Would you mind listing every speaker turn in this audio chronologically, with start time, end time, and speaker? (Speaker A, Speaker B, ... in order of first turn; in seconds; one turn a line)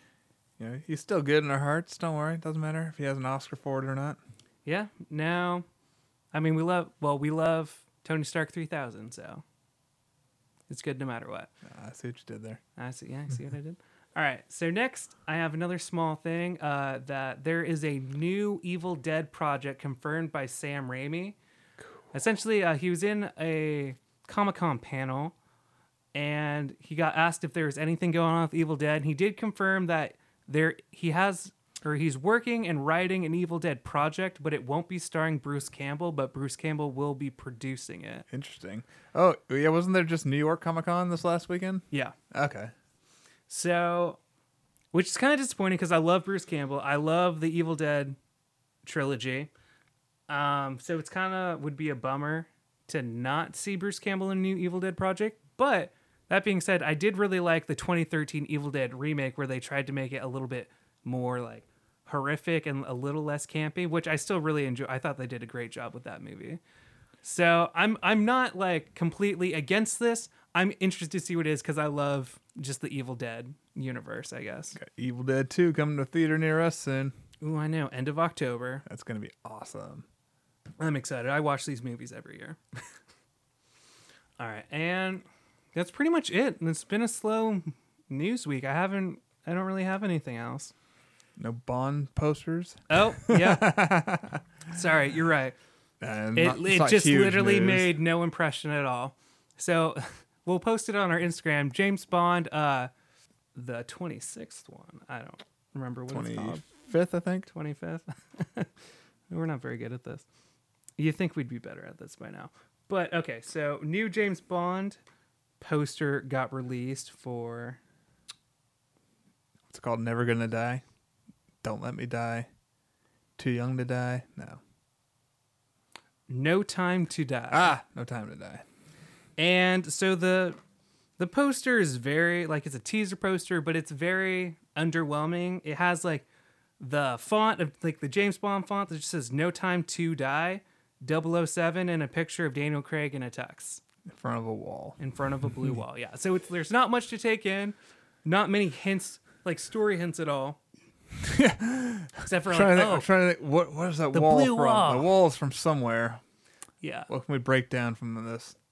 Speaker A: 0.6-4.2
Speaker B: 4.6-5.7
Speaker B: 6.3-9.4
Speaker B: 10.7-11.5
Speaker A: 11.6-12.6
Speaker B: 12.8-21.4
Speaker B: 22.1-25.4
Speaker B: 26.1-38.2
Speaker A: 38.3-42.7
Speaker B: 41.9-42.2
Speaker B: 43.5-44.2
Speaker B: 44.9-48.2
Speaker B: 48.8-49.5
Speaker B: 50.3-66.6
Speaker B: 67.2-74.8
Speaker A: 74.8-77.1
Speaker B: 77.4-78.8
Speaker A: 78.9-80.1
Speaker B: 80.8-82.8
Speaker B: 84.4-90.7
Speaker A: 91.4-94.4
Speaker B: 92.9-93.7
Speaker B: 94.7-95.5
Speaker A: 96.0-97.9
Speaker B: 96.4-102.9
Speaker B: 103.5-106.7
Speaker A: 106.1-107.5
Speaker B: 107.5-108.7
Speaker B: 109.3-110.2
Speaker B: 111.0-115.0
Speaker B: 115.6-117.8
Speaker A: 119.7-120.8
Speaker A: 121.6-122.5
Speaker A: 123.4-124.6
Speaker B: 126.3-127.8
Speaker A: 127.5-128.6
Speaker B: 129.4-130.6
Speaker B: 131.2-136.3
Speaker B: 136.8-143.8
Speaker A: 144.1-145.0
Speaker B: 145.0-150.6
Speaker A: 151.2-156.2
Speaker B: 152.2-153.1
Speaker B: 154.1-155.1
Speaker B: 156.8-157.1
Speaker A: 157.1-158.6